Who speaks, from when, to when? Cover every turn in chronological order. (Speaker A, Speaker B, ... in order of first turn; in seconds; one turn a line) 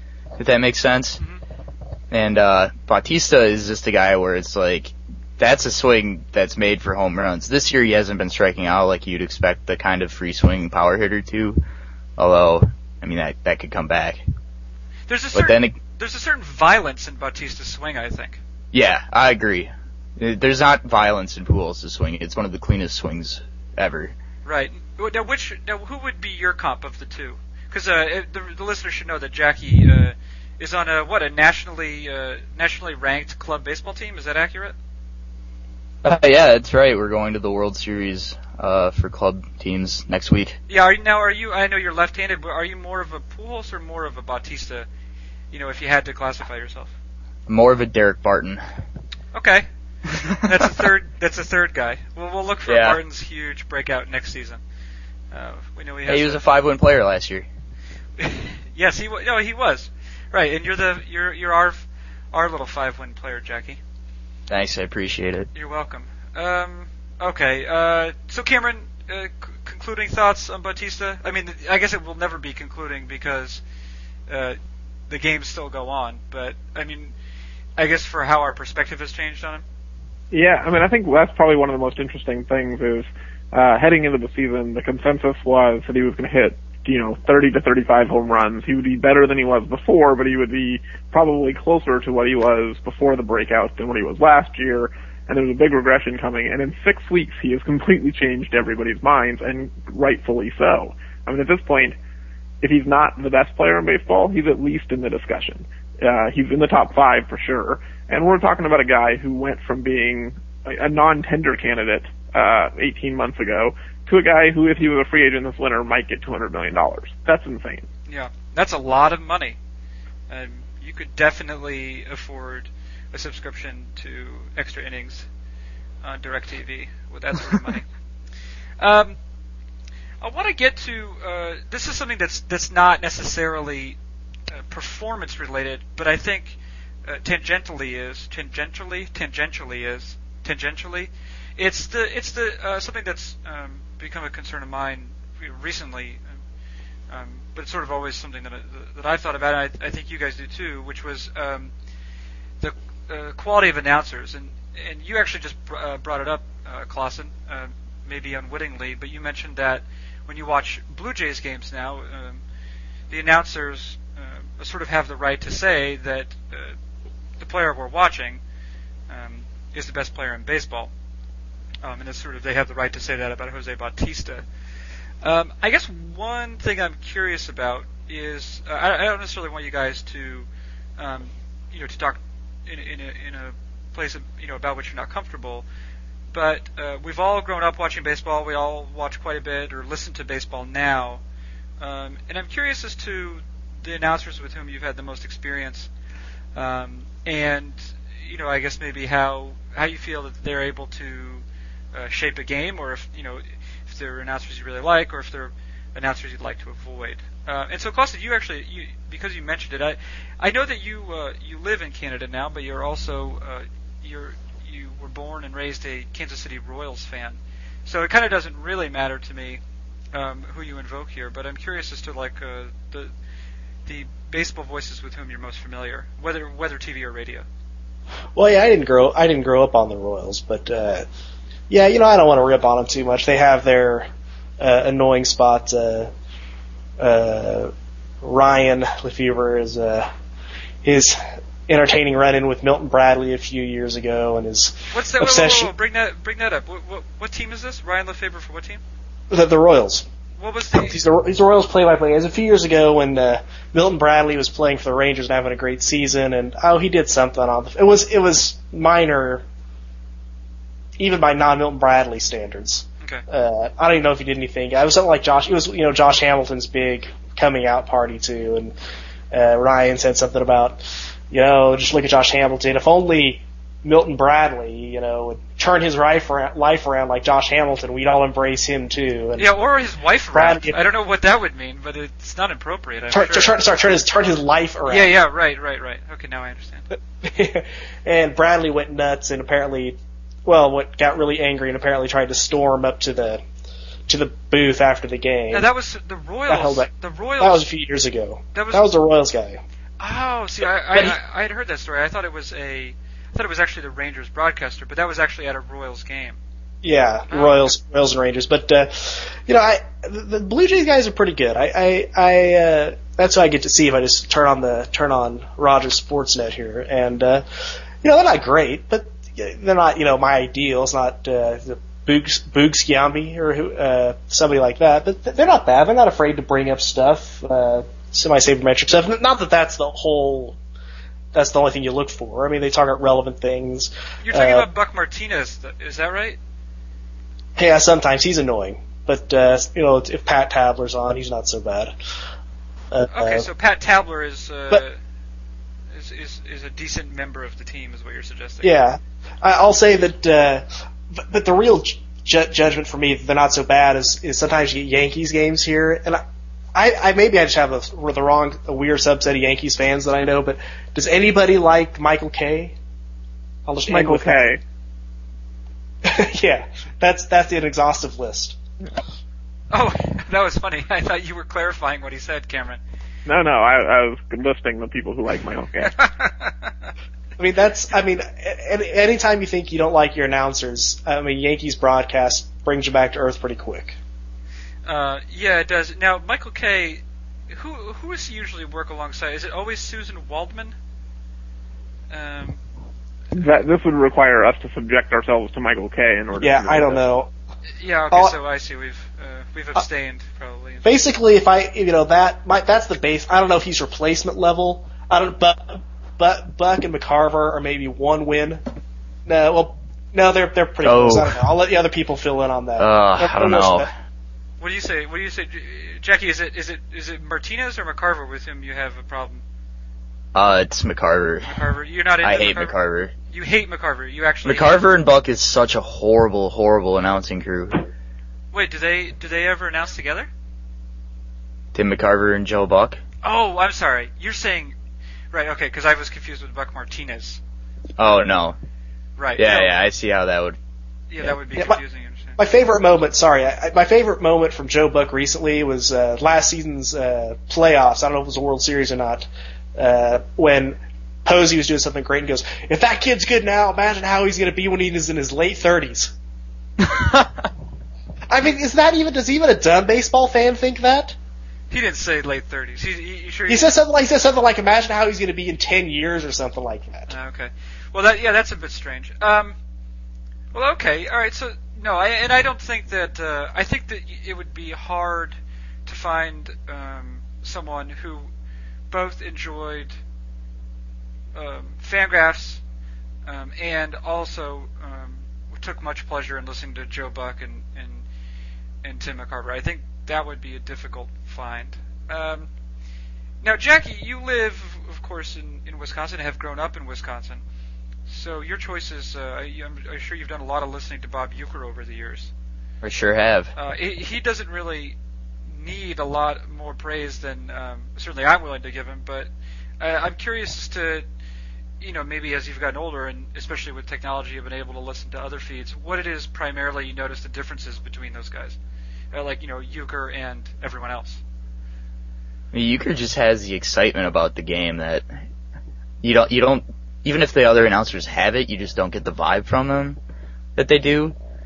Speaker A: 0.4-1.2
Speaker A: 2.1-11.6
Speaker A: 12.2-14.2
Speaker B: 15.1-18.4
Speaker A: 15.3-15.7
Speaker A: 18.7-24.1
Speaker B: 24.4-34.8
Speaker A: 36.0-40.6
Speaker B: 40.7-44.9
Speaker B: 45.5-46.9
Speaker A: 47.5-48.6
Speaker B: 49.3-49.7
Speaker B: 50.4-54.6
Speaker A: 52.7-53.0
Speaker B: 55.3-56.4
Speaker A: 56.1-57.5
Speaker B: 58.2-63.8
Speaker A: 64.5-65.5
Speaker B: 65.5-73.6
Speaker B: 74.3-74.6
Speaker B: 75.1-77.1
Speaker B: 77.8-79.6
Speaker C: 80.3-102.0
Speaker C: 102.6-117.9
Speaker B: 118.1-119.6
Speaker B: 120.3-125.3
Speaker B: 126.0-127.9
Speaker B: 128.8-129.2
Speaker B: 130.2-134.0
Speaker B: 134.5-146.3
Speaker B: 147.1-151.7
Speaker B: 152.6-162.4
Speaker B: 163.1-166.8
Speaker B: 167.4-168.4
Speaker B: 169.1-170.9
Speaker B: 171.8-174.4
Speaker B: 175.2-180.5
Speaker B: 181.0-185.7
Speaker B: 186.3-191.2
Speaker B: 191.8-195.9
Speaker B: 196.6-219.6
Speaker B: 220.1-223.1
Speaker B: 223.9-227.5
Speaker D: 228.4-231.1
Speaker D: 231.7-234.1
Speaker D: 234.6-236.1
Speaker D: 237.0-237.7
Speaker D: 238.2-240.1
Speaker D: 240.8-245.7
Speaker B: 244.9-248.8
Speaker D: 249.3-250.1
Speaker B: 250.4-251.0
Speaker D: 250.8-259.4
Speaker D: 261.0-268.7
Speaker D: 269.3-279.5
Speaker B: 279.4-283.6
Speaker D: 280.3-280.8
Speaker D: 283.1-285.1
Speaker B: 284.9-286.9
Speaker D: 287.2-293.4
Speaker D: 294.1-295.7
Speaker B: 295.5-297.6
Speaker D: 296.5-296.9
Speaker D: 297.4-299.6
Speaker B: 298.5-298.9
Speaker B: 300.0-306.4
Speaker D: 306.8-317.4
Speaker B: 307.3-307.7
Speaker D: 318.0-330.6
Speaker D: 331.3-334.7
Speaker B: 334.2-336.4
Speaker D: 337.6-341.9
Speaker D: 342.9-343.5
Speaker B: 343.1-345.0
Speaker B: 345.9-348.8
Speaker D: 348.6-350.6
Speaker D: 351.3-356.2
Speaker D: 356.8-362.8
Speaker D: 363.7-364.5
Speaker C: 363.9-364.6
Speaker D: 366.1-368.6
Speaker B: 369.7-372.8
Speaker C: 373.3-375.9
Speaker B: 375.8-376.9
Speaker D: 377.4-384.0
Speaker B: 384.9-390.8
Speaker B: 392.1-392.6
Speaker C: 393.3-397.0
Speaker D: 396.4-397.3
Speaker B: 397.8-400.9
Speaker D: 400.9-408.6
Speaker D: 409.3-413.9
Speaker A: 410.8-411.4
Speaker A: 412.8-413.9
Speaker B: 414.6-419.4
Speaker A: 420.3-421.6
Speaker B: 421.5-422.8
Speaker A: 422.2-423.1
Speaker B: 423.3-424.8
Speaker A: 424.4-427.9
Speaker B: 428.5-430.3
Speaker A: 431.7-433.0
Speaker B: 433.2-434.8
Speaker B: 435.3-437.4
Speaker A: 438.0-438.6
Speaker B: 439.2-439.7
Speaker A: 439.4-440.6
Speaker B: 441.1-442.4
Speaker D: 442.4-456.1
Speaker D: 458.3-461.1
Speaker B: 461.7-463.7
Speaker D: 463.5-467.1
Speaker B: 467.1-469.6
Speaker B: 470.5-478.3
Speaker B: 478.9-480.0
Speaker B: 481.3-482.6
Speaker B: 483.3-488.1
Speaker B: 488.8-492.5
Speaker B: 493.4-497.4
Speaker B: 498.1-502.3
Speaker A: 502.8-503.5
Speaker B: 503.6-505.0
Speaker B: 505.6-509.3
Speaker B: 509.8-511.1
Speaker B: 511.8-518.6
Speaker B: 519.1-521.2
Speaker A: 522.5-525.0
Speaker A: 526.0-530.0
Speaker A: 530.6-531.2